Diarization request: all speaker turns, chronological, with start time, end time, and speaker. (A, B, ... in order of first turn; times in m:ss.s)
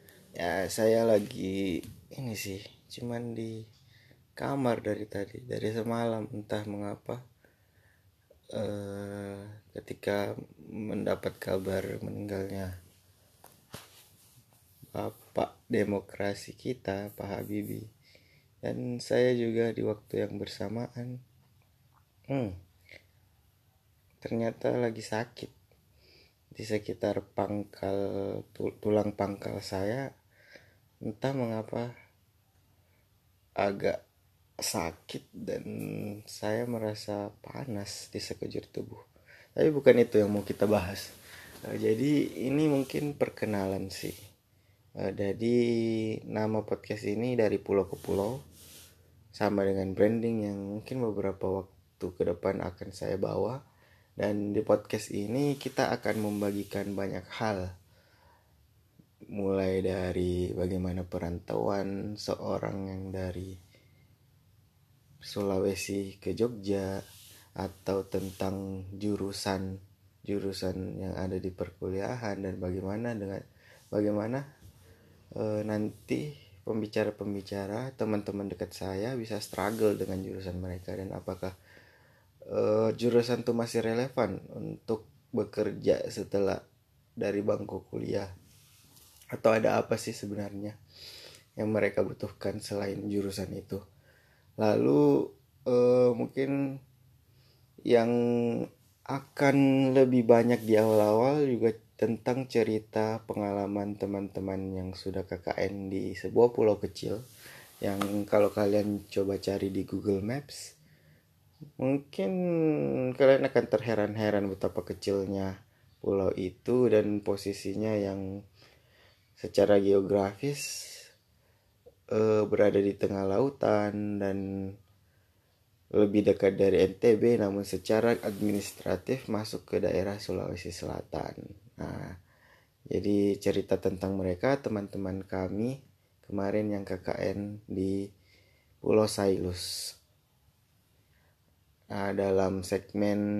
0:00.4-0:03.5 A
0:04.4-0:07.2 A
0:08.5-0:10.2 A
0:10.8-0:12.7 A
0:14.9-0:17.8 A
0:18.6-0:21.2 A
0:24.2-0:25.5 A
0:26.5-0:30.0 A
0:31.1-0:31.9 A
0:33.6-0:34.0 A
0:34.6-0:35.7 A
0:36.3-0:39.0 A
0:39.6-0:41.1 A
0:41.7-0:44.1 A
0:45.0-0:45.6 A
0:46.3-0:48.4 A
0:49.4-0:53.6 A
0:54.2-0:57.6 A
0:59.4-1:03.5 A
1:05.2-1:07.0 A
1:07.6-1:09.7 A
1:10.2-1:14.4 A
1:15.4-1:21.5 A
1:22.5-1:26.6 A
1:27.2-1:28.3 A
1:29.3-1:30.8 A
1:31.6-1:33.8 A
1:34.6-1:35.0 A
1:35.7-1:36.5 A
1:37.9-1:47.2 A
1:47.8-1:50.6 A
1:51.8-1:52.3 A
1:53.2-1:55.5 A
1:56.0-1:58.2 A
1:59.4-2:00.6 A
2:02.1-2:04.4 A
2:06.0-2:12.1 A
2:12.9-2:15.7 A
2:16.2-2:17.9 A
2:18.8-2:19.7 A
2:21.9-2:23.2 A